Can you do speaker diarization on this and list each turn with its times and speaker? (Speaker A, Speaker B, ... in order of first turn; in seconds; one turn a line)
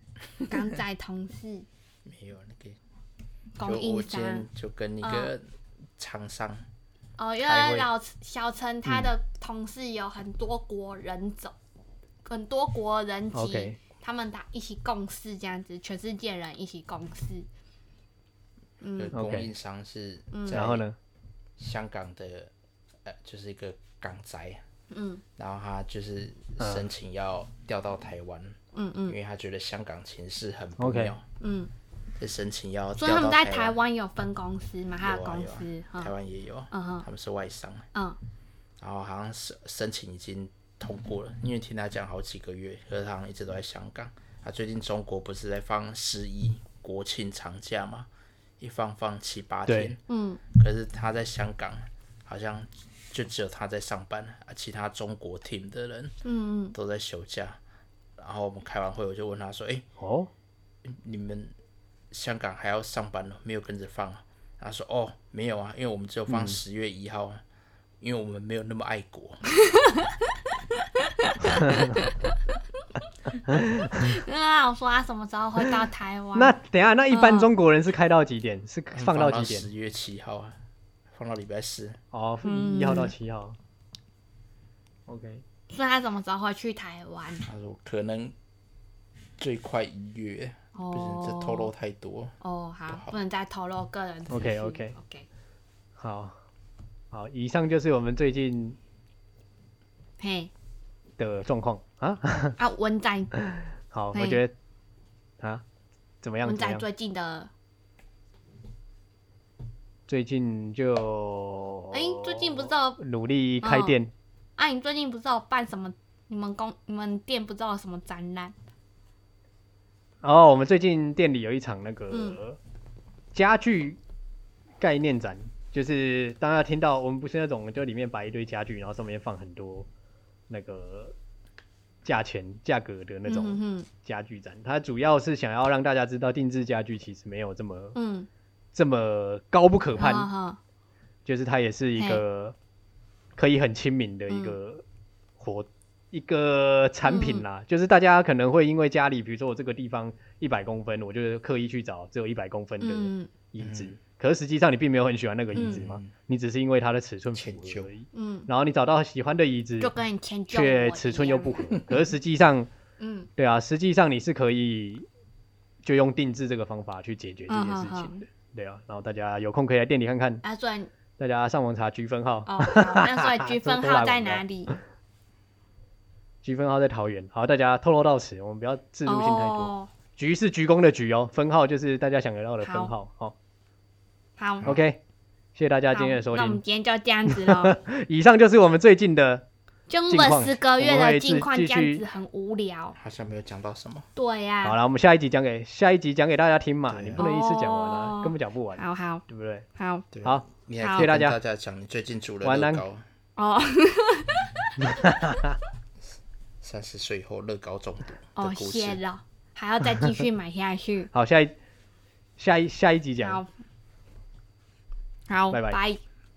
Speaker A: 0.5-1.6
Speaker B: 2.0-2.8
Speaker A: 3.6-4.5
Speaker B: 3.6-6.7
Speaker A: 5.0-5.3
Speaker A: 7.2-11.5
Speaker C: 7.5-7.9
Speaker C: 8.8-9.1
Speaker A: 12.2-17.5
Speaker C: 13.3-13.8
Speaker A: 18.8-19.1
Speaker B: 18.9-20.9
Speaker C: 19.1-19.5
Speaker A: 20.3-20.8
Speaker C: 20.5-20.9
Speaker B: 21.6-22.5
Speaker B: 23.0-24.6
Speaker A: 24.9-25.2
Speaker B: 25.4-31.2
Speaker C: 26.6-26.9
Speaker A: 28.7-29.1
Speaker C: 30.8-31.1
Speaker A: 31.4-31.7
Speaker B: 32.2-33.7
Speaker A: 33.0-36.1
Speaker B: 35.0-37.9
Speaker A: 36.7-37.0
Speaker B: 38.8-50.0
Speaker C: 49.7-50.0
Speaker A: 50.1-50.4
Speaker B: 50.5-56.1
Speaker A: 56.2-56.8
Speaker B: 56.7-57.6
Speaker B: 58.2-59.9
Speaker C: 60.0-60.3
Speaker B: 60.8-61.5
Speaker B: 62.1-67.4
Speaker C: 66.3-66.6
Speaker B: 68.0-69.4
Speaker A: 69.6-70.1
Speaker A: 71.2-72.2
Speaker C: 71.5-72.0
Speaker C: 73.5-74.2
Speaker A: 73.9-76.5
Speaker C: 76.3-79.7
Speaker A: 77.1-77.5
Speaker B: 78.9-80.6
Speaker B: 81.1-82.0
Speaker C: 82.1-83.5
Speaker A: 82.4-83.1
Speaker C: 85.1-85.4
Speaker A: 85.7-87.5
Speaker B: 87.5-88.3
Speaker B: 89.4-92.3
Speaker A: 90.7-91.7
Speaker A: 92.4-95.2
Speaker B: 92.9-93.2
Speaker C: 94.3-94.9
Speaker C: 96.0-96.3
Speaker C: 97.1-98.8
Speaker A: 100.2-100.5
Speaker C: 101.2-102.6
Speaker A: 102.6-103.3
Speaker C: 103.4-104.5
Speaker A: 104.1-104.4
Speaker C: 106.2-106.8
Speaker A: 106.4-107.5
Speaker C: 110.1-114.1
Speaker A: 111.9-113.0
Speaker A: 113.6-114.0
Speaker A: 114.6-118.5
Speaker C: 120.2-122.6
Speaker A: 122.1-122.4
Speaker C: 123.3-124.0
Speaker C: 124.8-129.9
Speaker C: 130.5-131.1
Speaker C: 132.0-138.0
Speaker A: 133.2-133.9
Speaker A: 137.9-138.3
Speaker C: 138.7-140.3
Speaker A: 140.0-140.6
Speaker C: 141.2-142.5
Speaker A: 141.9-142.2
Speaker C: 143.4-144.8
Speaker A: 144.3-144.6
Speaker C: 145.4-159.9
Speaker A: 147.0-147.4
Speaker A: 152.8-153.3
Speaker B: 153.6-153.9
Speaker B: 155.5-156.1
Speaker A: 155.6-155.8
Speaker B: 157.3-157.9
Speaker A: 158.1-158.5
Speaker A: 159.8-161.8
Speaker C: 160.5-162.7
Speaker A: 163.0-163.3
Speaker C: 163.4-165.1
Speaker C: 165.8-170.4
Speaker A: 167.5-168.1
Speaker A: 170.4-170.9
Speaker C: 171.2-174.8
Speaker A: 172.4-174.8
Speaker C: 176.4-183.3
Speaker A: 179.1-179.9
Speaker A: 182.6-182.9
Speaker A: 184.4-184.7
Speaker C: 184.6-185.0
Speaker C: 185.5-186.6
Speaker A: 185.9-187.8
Speaker C: 187.3-189.5
Speaker A: 189.9-193.0
Speaker C: 190.1-192.0
Speaker B: 192.9-194.1
Speaker A: 194.2-194.8
Speaker C: 194.6-199.7
Speaker B: 196.9-197.2
Speaker A: 197.2-199.2
Speaker A: 199.8-200.1
Speaker B: 200.1-203.0
Speaker C: 200.2-201.4
Speaker A: 200.8-201.1
Speaker C: 202.4-202.8
Speaker A: 203.4-204.6
Speaker C: 204.9-205.6
Speaker B: 206.6-209.0
Speaker A: 208.3-211.1
Speaker C: 211.1-211.6
Speaker C: 212.4-213.4
Speaker A: 213.2-213.5
Speaker A: 215.3-216.0
Speaker C: 215.5-215.8